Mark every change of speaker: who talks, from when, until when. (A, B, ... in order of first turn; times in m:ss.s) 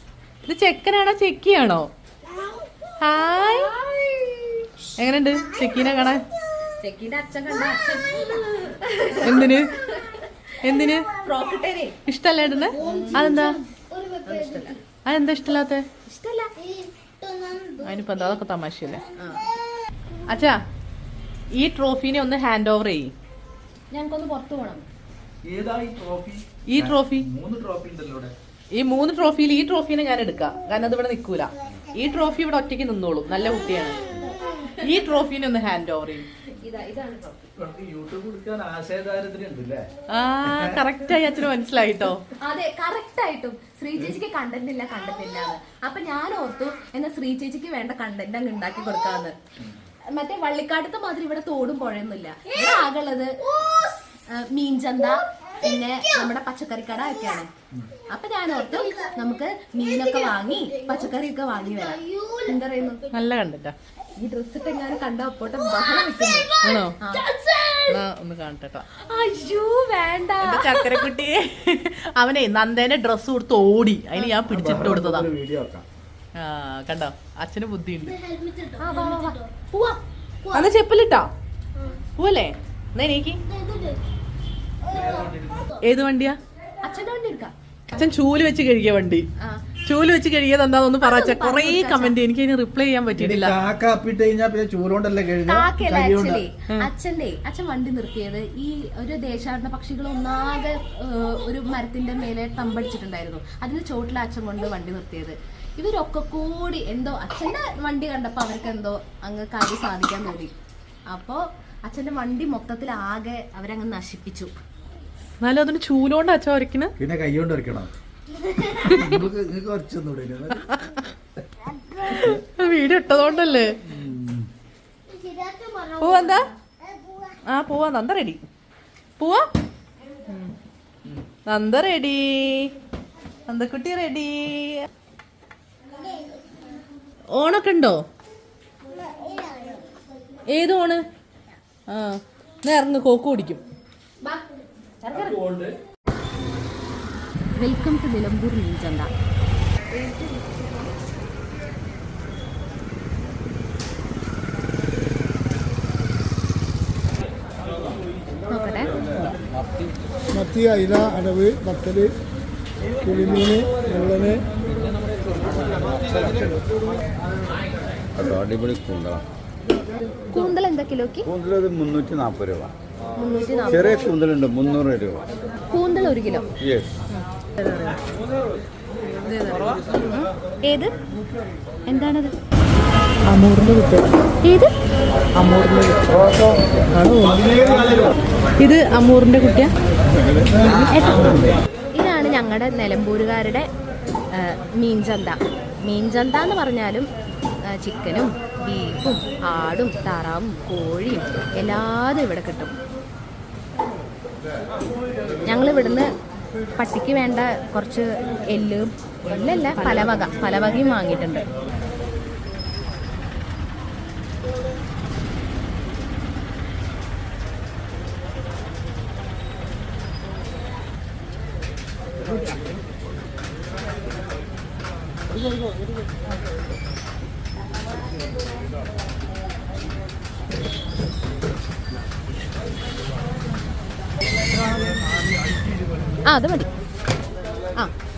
0:00.4-0:01.9 A
0:03.0-0:03.7 A
0:05.0-0:06.2 A
0:06.8-0:10.2 B
0:09.2-0:09.9 A
0:10.6-0:11.1 A
0:11.2-0:12.0 B
0:12.0-0:13.6 A
0:12.8-0:14.6 C
0:12.8-0:13.6 B
0:14.2-0:14.8 B
0:15.0-0:15.8 A
0:16.0-0:16.5 B
0:16.6-0:17.8 C
0:17.8-0:19.0 A
0:19.2-0:19.5 B
0:20.3-0:20.6 A
0:21.5-0:23.1 A
0:23.9-0:24.8 B
0:25.4-0:28.3 D
0:26.7-0:27.3 A
0:28.8-0:34.0 A
0:34.8-0:36.3 A
0:36.6-0:37.4 B
0:37.6-0:39.9 D
0:40.1-0:42.2 A
0:40.5-0:41.1 D
0:42.4-0:49.3 B
0:50.1-0:53.3 B
0:53.6-0:54.0 C
0:54.3-0:57.5 B
0:58.1-1:03.0 B
1:02.0-1:02.4 C
1:03.1-1:03.7 A
1:04.2-1:07.9 B
1:06.6-1:07.0 A
1:07.9-1:08.8 A
1:09.0-1:11.1 B
1:10.4-1:15.3 A
1:14.5-1:15.9 D
1:16.4-1:18.2 A
1:18.2-1:18.8 C
1:18.8-1:20.0 B
1:20.5-1:21.3 A
1:22.2-1:23.4 A
1:23.5-1:24.0 C
1:24.9-1:25.7 D
1:25.8-1:26.4 A
1:26.8-1:27.5 B
1:27.9-1:29.2 A
1:29.8-1:33.6 A
1:31.0-1:32.2 B
1:33.2-1:36.4 D
1:35.4-1:50.5 B
1:51.1-1:54.5 B
1:55.4-1:56.9 A
1:57.0-1:57.9 D
1:58.8-2:00.7 D
2:00.7-2:01.0 A
2:02.0-2:03.8 A
2:03.8-2:04.5 D
2:05.1-2:06.1 C
2:06.0-2:06.5 A
2:07.5-2:08.4 A
2:09.2-2:09.5 A
2:11.4-2:12.7 A
2:13.4-2:14.8 A
2:17.3-2:18.0 A
2:19.2-2:19.8 C
2:20.5-2:21.0 A
2:21.9-2:23.6 A
2:25.0-2:25.4 B
2:25.1-2:25.8 D
2:27.5-2:29.1 B
2:29.9-2:30.5 B
2:38.5-2:39.1 B
2:40.4-2:42.1 C
2:43.1-2:44.4 C
2:45.7-2:46.6 E
2:48.2-2:49.2 E
2:50.3-2:51.3 B
2:51.2-2:52.7 E
2:53.2-2:54.1 B
2:53.7-2:55.2 E
2:55.7-2:56.5 B
2:56.6-2:56.9 E
2:57.6-2:58.0 A
2:59.2-3:00.9 B
3:01.9-3:02.3 B
3:03.2-3:04.1 A
3:05.4-3:06.0 A
3:06.9-3:08.0 A
3:08.6-3:09.7 A
3:10.6-3:11.4 A
3:10.9-3:11.2 B
3:12.0-3:13.7 B
3:14.4-3:17.1 B
3:17.7-3:22.8 B
3:25.4-3:26.1 B
3:26.8-3:31.5 B
3:30.0-3:30.3 A
3:56.2-3:56.7 B